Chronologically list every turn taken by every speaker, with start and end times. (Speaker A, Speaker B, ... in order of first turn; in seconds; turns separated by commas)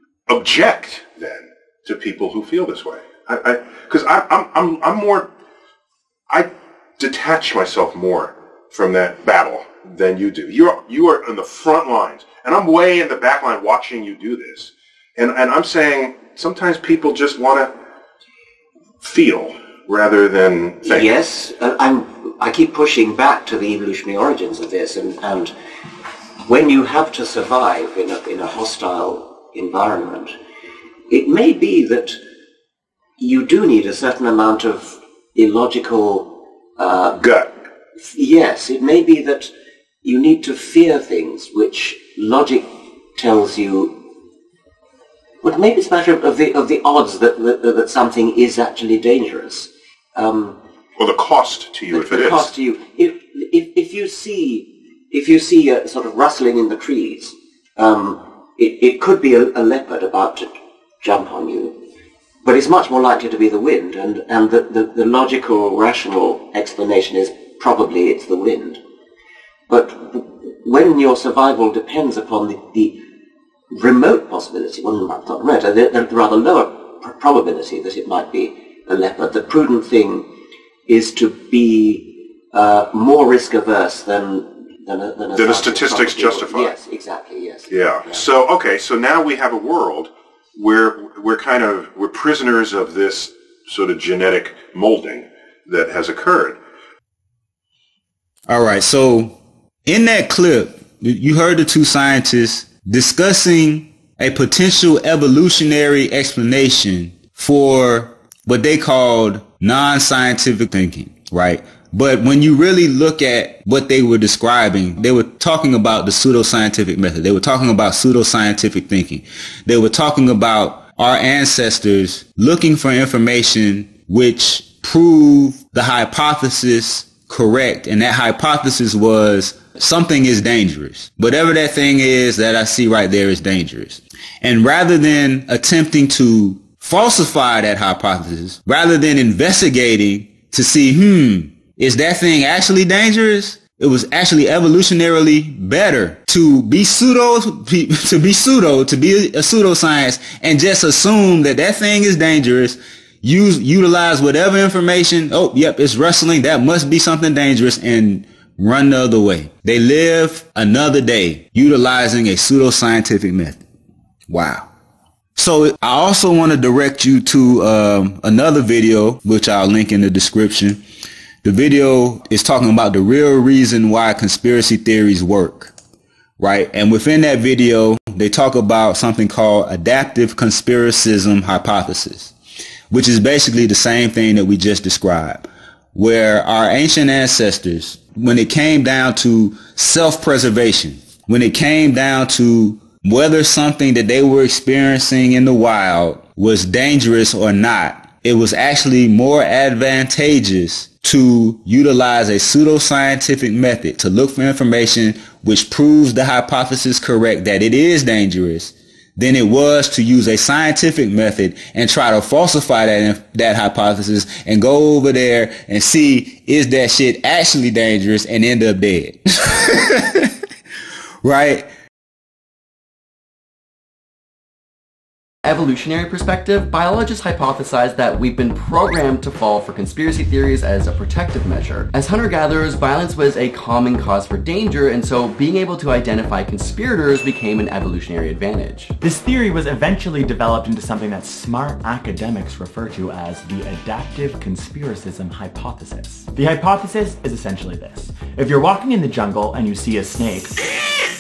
Speaker A: 0.3-5.3, Speaker A: 6.3-17.7, Speaker A: 19.0-21.1, Speaker B: 20.8-25.5, Speaker B: 26.4-30.3, Speaker B: 31.1-32.2, Speaker B: 33.2-37.3, Speaker A: 37.2-37.5, Speaker B: 38.0-39.5, Speaker B: 40.0-44.1, Speaker B: 45.4-50.6, Speaker A: 51.0-52.5, Speaker B: 51.9-60.5, Speaker B: 61.0-61.8, Speaker B: 62.4-68.8, Speaker B: 69.7-73.0, Speaker B: 73.7-80.3, Speaker B: 80.9-88.2, Speaker A: 85.3-86.7, Speaker A: 87.7-96.6, Speaker C: 98.5-163.6, Speaker C: 164.3-164.7, Speaker C: 165.3-170.8, Speaker C: 171.4-175.7, Speaker C: 176.4-182.3, Speaker C: 182.9-220.3, Speaker C: 221.2-221.7, Speaker D: 225.4-238.9, Speaker E: 239.0-250.7